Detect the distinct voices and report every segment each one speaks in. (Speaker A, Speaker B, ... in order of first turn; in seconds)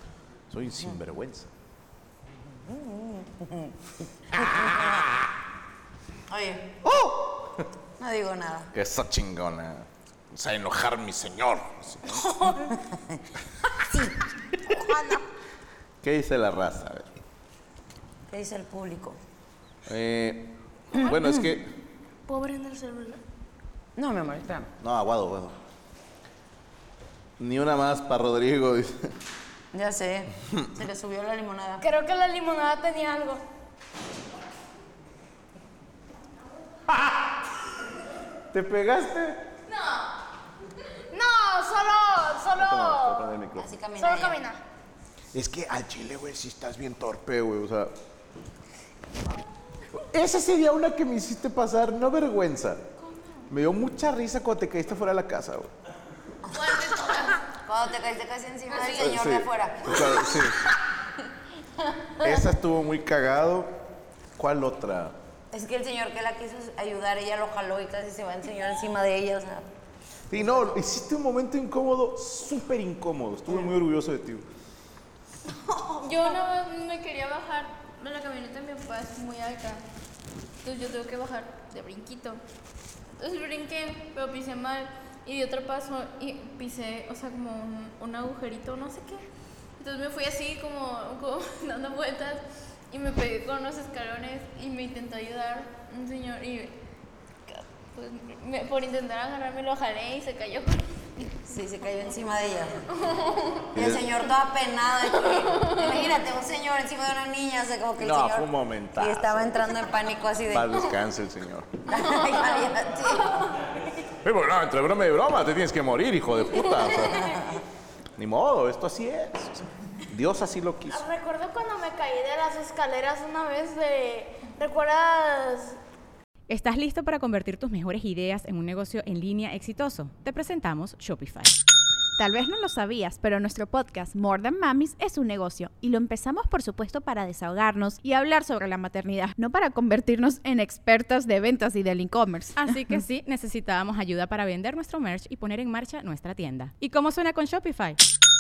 Speaker A: 0.5-1.5, 4.4-5.0, 6.8-7.7, 8.7-12.2, 16.0-17.1, 19.9-21.7, 24.8-25.6, 27.4-29.1, 36.9-37.4, 38.5-39.4, 42.5-43.7, 45.3-47.9, 49.9-52.8, 53.5-55.7, 58.9-60.6, 62.2-63.8, 64.4-65.2, 70.3-74.5, 103.8-104.0, 108.0-109.6, 110.5-111.8, 114.2-117.4, 118.2-121.0
Speaker B: 2.4-5.2, 6.3-6.8, 8.0-8.7, 12.7-13.2, 13.7-14.2, 18.3-19.2, 24.0-24.7, 29.7-31.9, 43.6-44.4, 56.5-60.5, 62.0-62.5, 65.5-69.7, 70.3-70.8, 101.2-102.8, 103.7-110.9, 111.8-113.6, 117.2-117.6
Speaker C: 12.1-12.7, 14.7-15.2, 22.3-23.2, 31.8-33.4, 41.1-43.3, 44.0-44.6, 120.9-125.8
Speaker D: 56.8-57.1, 75.7-79.8, 80.6-82.4, 83.2-89.2, 89.8-96.8, 97.5-100.8, 103.0-103.6, 105.3-106.0
Speaker E: 126.5-131.5, 142.6-148.0
Speaker F: 132.2-142.7